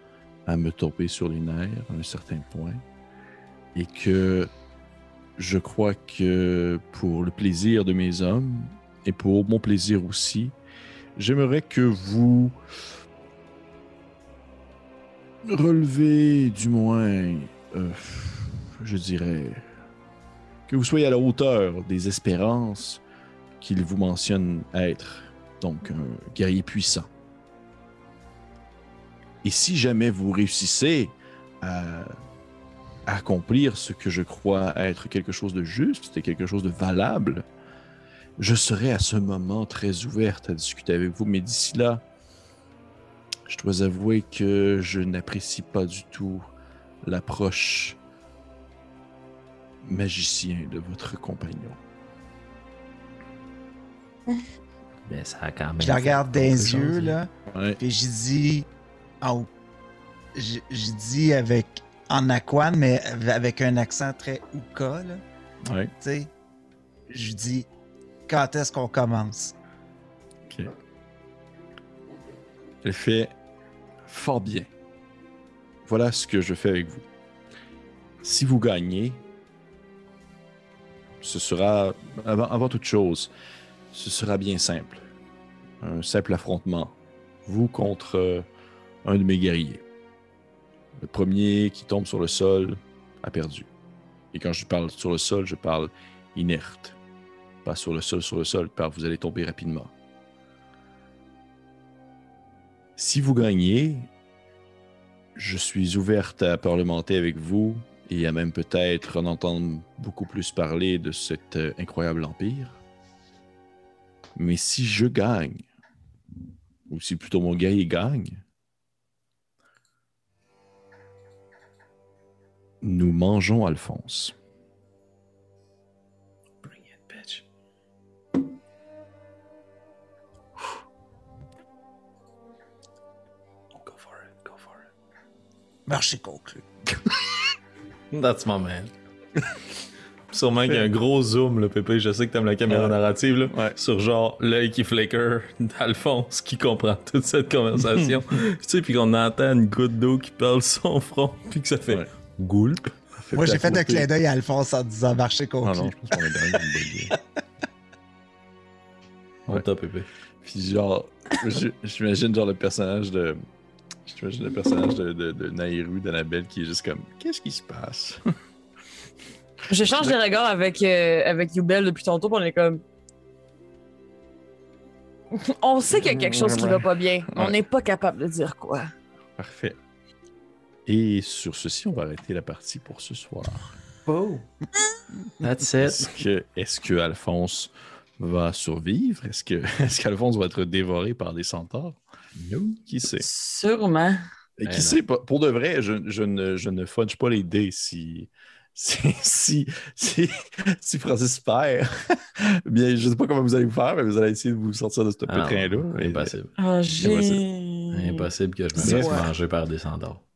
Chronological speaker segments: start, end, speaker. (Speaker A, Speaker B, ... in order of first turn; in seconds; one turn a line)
Speaker A: 0.5-2.8
Speaker A: 3.7-4.5
Speaker A: 5.4-10.5
Speaker A: 11.2-12.6
Speaker A: 15.4-19.6
Speaker A: 20.7-23.0
Speaker A: 23.6-27.1
Speaker A: 29.4-32.1
Speaker A: 33.1-37.5
Speaker A: 38.4-42.0
Speaker A: 43.5-46.5
Speaker A: 47.0-48.0
Speaker A: 49.8-51.8
Speaker B: 55.0-57.2
Speaker C: 55.8-58.7
Speaker A: 57.5-57.8
Speaker C: 59.2-59.5
Speaker C: 60.3-65.2
Speaker A: 65.6-65.9
Speaker C: 66.0-66.3
Speaker C: 67.1-67.7
Speaker C: 68.3-69.5
Speaker A: 70.5-70.7
Speaker A: 72.8-73.3
Speaker A: 74.1-74.7
Speaker A: 75.8-77.0
Speaker A: 78.2-79.2
Speaker A: 81.2-83.3
Speaker A: 83.9-85.0
Speaker A: 85.8-88.5
Speaker A: 89.0-89.8
Speaker A: 91.0-93.7
Speaker A: 94.3-97.0
Speaker A: 97.6-99.9
Speaker A: 103.0-104.1
Speaker A: 105.3-112.7
Speaker A: 114.3-115.6
Speaker A: 116.9-118.4
Speaker A: 122.8-124.3
Speaker B: 126.6-127.4
Speaker B: 133.8-134.8
Speaker C: 135.8-136.7
Speaker B: 138.1-138.9
Speaker B: 140.3-152.9
Speaker A: 140.6-140.9
Speaker A: 142.7-142.9
Speaker A: 143.5-143.8
Speaker A: 153.1-154.1
Speaker C: 153.3-156.6
Speaker A: 155.6-157.1
Speaker B: 159.5-160.1
Speaker A: 160.4-163.4
Speaker A: 164.1-168.3
Speaker D: 169.7-172.8
Speaker A: 169.8-170.2
Speaker D: 175.3-178.9
Speaker A: 175.9-177.5
Speaker A: 179.4-179.8
Speaker A: 180.8-183.7
Speaker B: 184.1-184.4
Speaker B: 185.4-186.1
Speaker A: 185.8-192.0
Speaker B: 192.4-192.8
Speaker A: 192.8-193.3
Speaker D: 193.2-194.3
Speaker A: 194.6-206.3
Speaker B: 194.6-195.0
Speaker B: 205.3-206.5
Speaker D: 206.6-208.3
Speaker A: 207.0-207.4
Speaker B: 207.9-210.2
Speaker A: 208.8-209.2
Speaker C: 208.8-209.3